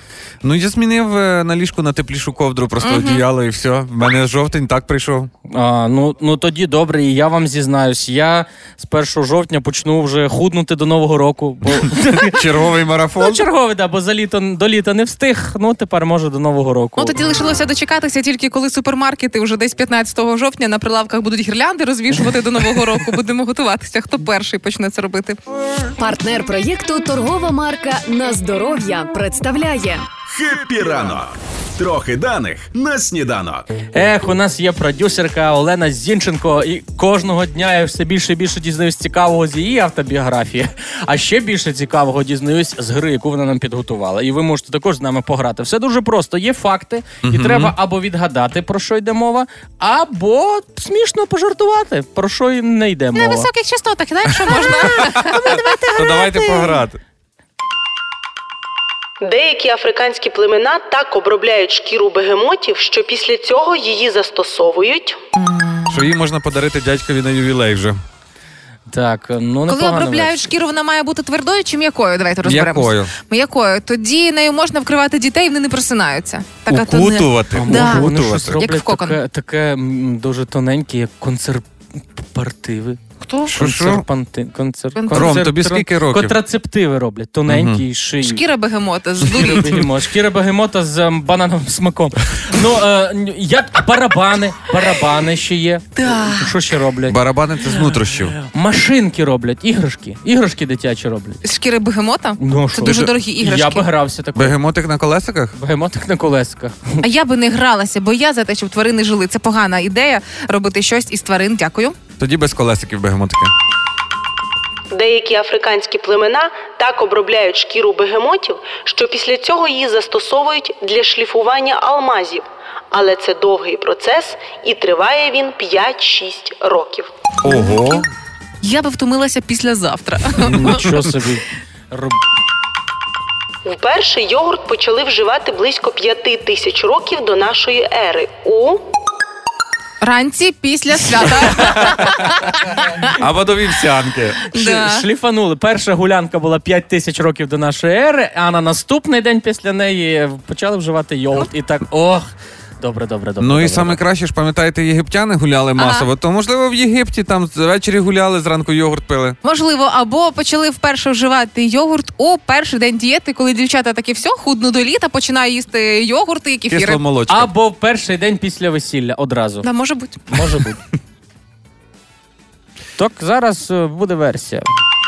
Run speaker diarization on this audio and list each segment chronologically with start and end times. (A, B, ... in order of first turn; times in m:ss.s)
0:00.4-0:05.3 A
0:02.8-0:03.2 B
0:05.5-0:12.4 C
0:12.1-0:13.5 A
0:13.2-0:17.2 C
0:17.0-0:25.4 B
0:26.0-0:30.1 D
0:30.3-0:33.7 E
0:33.9-0:53.5 C
0:47.2-0:47.8 A
0:53.2-0:56.8 B
0:55.0-0:57.0 A
0:59.2-1:05.2 F
1:05.4-1:06.1 B
1:05.9-1:08.0 A
1:08.9-1:10.4 C
1:09.7-1:19.2 B
1:12.4-1:13.1 A
1:16.7-1:18.6 A
1:17.5-1:23.0 C
1:23.2-1:23.6 B
1:23.5-1:24.0 A
1:23.6-1:28.4 C
1:25.0-1:25.4 B
1:25.1-1:26.4 A
1:27.5-1:27.8 A
1:28.2-1:29.8 B
1:29.2-1:37.2 C
1:36.0-1:36.5 B
1:37.1-1:38.4 A
1:37.7-1:41.4 C
1:41.4-1:43.9 B
1:42.4-1:44.6 C
1:42.8-1:43.1 A
1:44.4-1:45.6 A
1:45.6-1:47.0 C
1:47.0-1:52.0 B
1:52.2-1:53.5 A
1:54.9-2:07.1 F
2:07.4-2:08.1 A
2:07.4-2:08.0 B
2:08.6-2:11.0 B
2:10.4-2:12.2 C
2:13.6-2:18.9 F
2:20.0-2:22.5 B
2:23.1-2:24.4 A
2:24.5-2:32.3 C
2:24.5-2:25.0 B
2:32.8-2:34.0 C
2:33.4-2:39.4 A
2:35.8-2:36.1 B
2:39.4-2:47.0 B
2:46.7-2:47.5 A
2:47.3-2:49.7 C
2:49.6-2:50.4 B
2:50.3-2:50.8 C
2:53.0-2:54.7 C